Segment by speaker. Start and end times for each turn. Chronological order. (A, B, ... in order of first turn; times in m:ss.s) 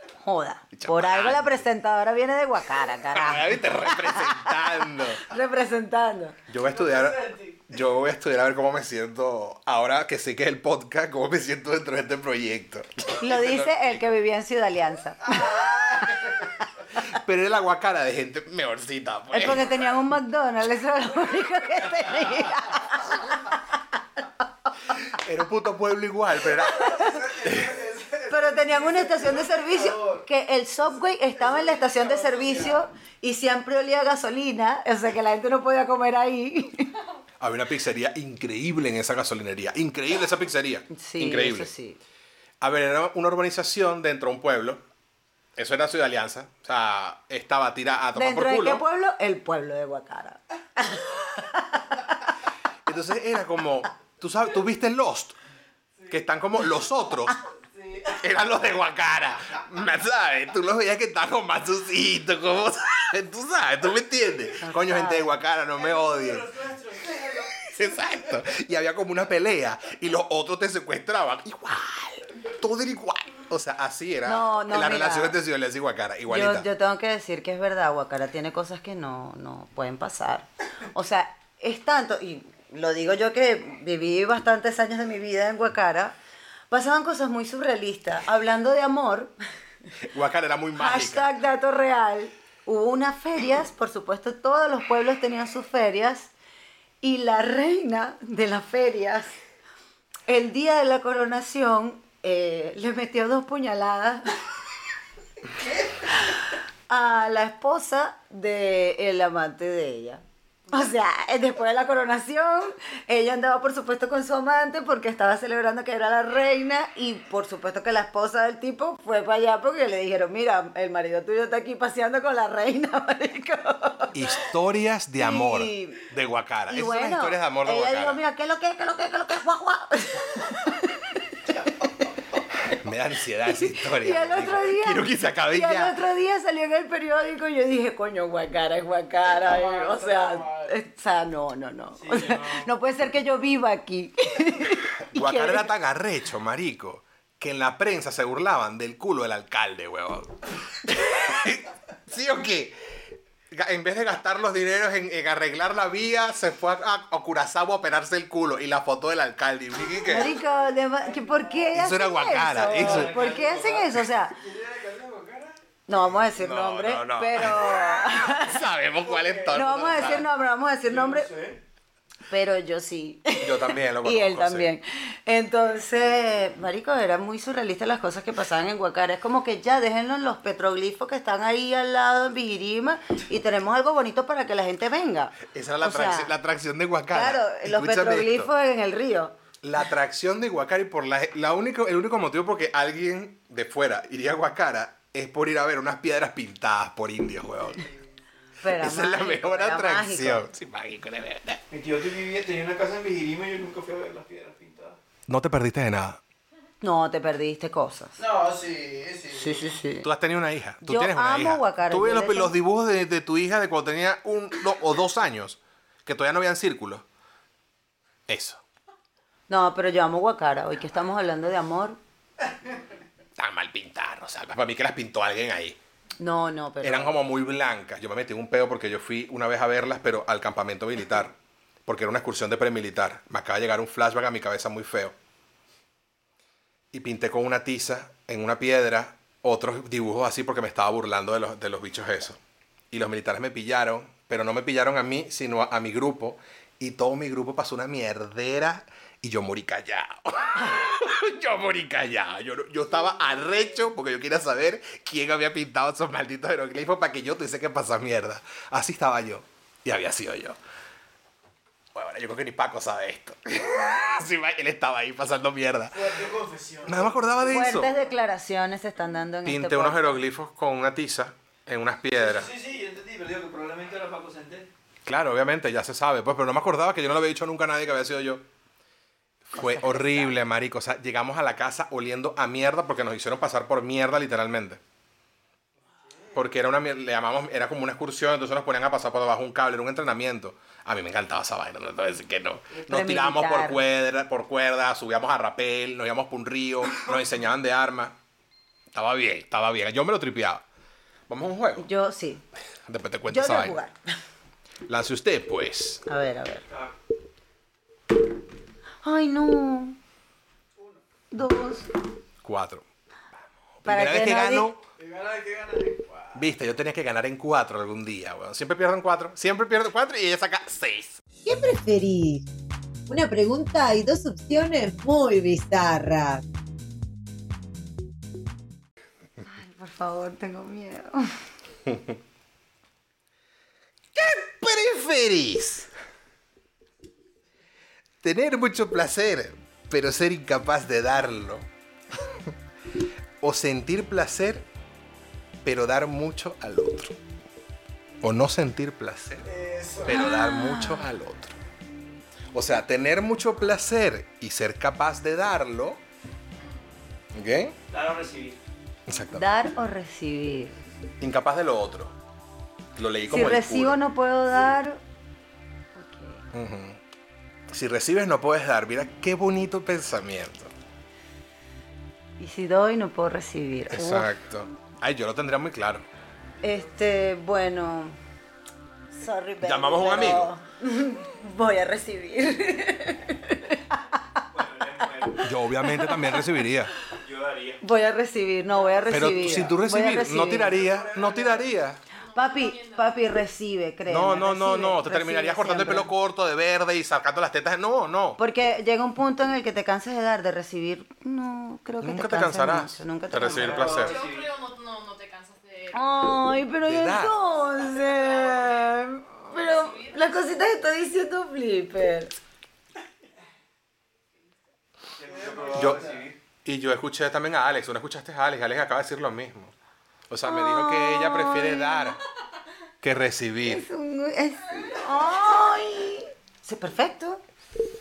0:00.2-0:06.4 A
0:00.7-0:01.6 B
0:03.1-0:05.2 B
0:06.5-0:14.1 B
0:06.7-0:07.6 C
0:13.2-0:15.4 A
0:15.2-0:16.5 C
0:17.0-0:19.6 B
0:19.3-0:23.4 A
0:25.1-0:27.7 B
0:26.6-0:30.2 C
0:28.3-0:36.9 A
0:30.8-0:32.8 C
0:37.4-0:41.7 B
0:40.9-0:42.0 A
0:42.6-0:44.8 B
0:45.6-0:48.8 B
0:48.1-0:52.1 A
0:52.8-0:55.4 B
0:56.1-0:57.4 B
0:57.7-0:58.2 C
0:58.1-1:06.5 B
1:04.6-1:05.3 A
1:05.8-1:08.0 C
1:07.6-1:16.7 B
1:14.2-1:15.4 A
1:16.3-1:26.2 A
1:26.7-1:29.3 A
1:30.0-1:31.4 B
1:30.7-1:36.3 A
1:37.0-1:39.3 A
1:40.3-1:44.4 A
1:45.8-2:04.4 A
2:04.1-2:08.2 B
2:05.2-2:06.0 A
2:06.7-2:11.1 A
2:12.7-2:15.9 B
2:13.5-2:25.7 A
2:19.2-2:20.7 C
2:22.0-2:22.7 D
2:25.1-2:32.8 B
2:33.5-2:40.3 B
2:40.0-2:44.4 A
2:41.2-2:41.6 C
2:41.7-2:43.1 B
2:42.6-2:44.0 D
2:44.3-2:45.6 C
2:45.9-2:48.6 A
2:46.4-2:50.3 B
2:49.0-2:49.6 C
2:49.5-2:51.3 A
2:50.8-2:51.6 C
2:52.3-3:06.3 A
2:53.4-2:54.7 B
3:05.4-3:08.5 B
3:07.1-3:09.3 A
3:09.6-3:17.8 B
3:17.6-3:18.1 C
3:18.6-3:20.4 A
3:18.7-3:21.6 B
3:21.7-3:25.0 D
3:25.3-3:26.2 B
3:26.8-3:28.2 A
3:28.2-3:29.6 C
3:29.3-3:30.1 A
3:30.0-3:37.0 B
3:30.8-3:32.5 A
3:38.3-3:38.6 B
3:39.5-3:42.0 A
3:43.4-3:45.8 B
3:46.2-3:47.2 A
3:46.8-3:55.1 B
3:56.9-4:02.4 B
4:02.9-4:20.6 B
4:21.9-4:26.2 B
4:25.9-4:28.1 C
4:26.8-4:27.9 B
4:27.5-4:30.2 A
4:29.4-4:32.5 B
4:32.2-4:34.7 D
4:35.0-4:38.4 B
4:39.5-4:44.8 B
4:39.5-4:40.4 A
4:45.8-4:46.4 C
4:46.3-4:58.1 B
4:52.7-4:53.8 A
4:58.9-5:00.6 B
5:01.3-5:01.8 B
5:01.8-5:02.4 A
5:02.8-5:03.8 B
5:03.3-5:04.0 A
5:04.9-5:06.0 B
5:06.1-5:06.6 A
5:06.7-5:06.9 D
5:09.0-5:10.0 A
5:10.8-5:11.0 C
5:11.3-5:11.9 A
5:12.4-5:12.8 B
5:13.8-5:14.8 B
5:13.8-5:14.7 A
5:15.0-5:16.5 C
5:16.3-5:21.2 B
5:21.4-5:22.4 E
5:23.1-5:26.4 E
5:29.4-5:31.4 A
5:34.1-5:35.9 B
5:38.2-5:41.7 B
5:42.2-5:42.5 B
5:43.4-5:44.6 B
5:45.6-5:47.2 B
5:48.2-5:49.5 B
5:49.4-5:50.3 C
5:50.0-5:51.5 B
5:50.1-5:51.1 A
5:52.5-5:56.0 B
5:57.3-5:57.8 B
5:57.9-5:58.6 D
5:59.1-5:59.4 B
5:59.3-6:00.8 A
6:01.2-6:02.1 B
6:03.0-6:04.0 B
6:03.3-6:05.0 A
6:05.9-6:06.4 A
6:06.5-6:07.0 B
6:07.7-6:10.7 B
6:12.4-6:14.3 A
6:13.9-6:16.0 B
6:16.6-6:18.2 A
6:19.2-6:24.0 A
6:19.6-6:20.5 B
6:24.5-6:25.5 D
6:25.4-6:26.9 B
6:25.8-6:26.5 A
6:27.2-6:27.8 D
6:27.8-6:30.8 A
6:29.1-6:32.0 B
6:30.5-6:31.8 C
6:32.2-6:33.3 F
6:32.3-6:36.1 A
6:34.1-6:38.4 B
6:38.4-6:43.9 A
6:42.0-6:44.2 B
6:43.4-6:44.5 D
6:43.9-6:46.4 F
6:45.9-6:52.4 A
6:46.8-6:47.4 B
6:47.5-6:48.9 F
6:49.4-6:50.8 F
6:55.2-6:56.4 D
6:55.2-6:56.2 C
6:55.7-6:56.0 B
6:56.6-6:59.7 B
7:00.3-7:02.2 B
7:00.4-7:02.2 A
7:03.0-7:03.8 B
7:03.6-7:07.4 A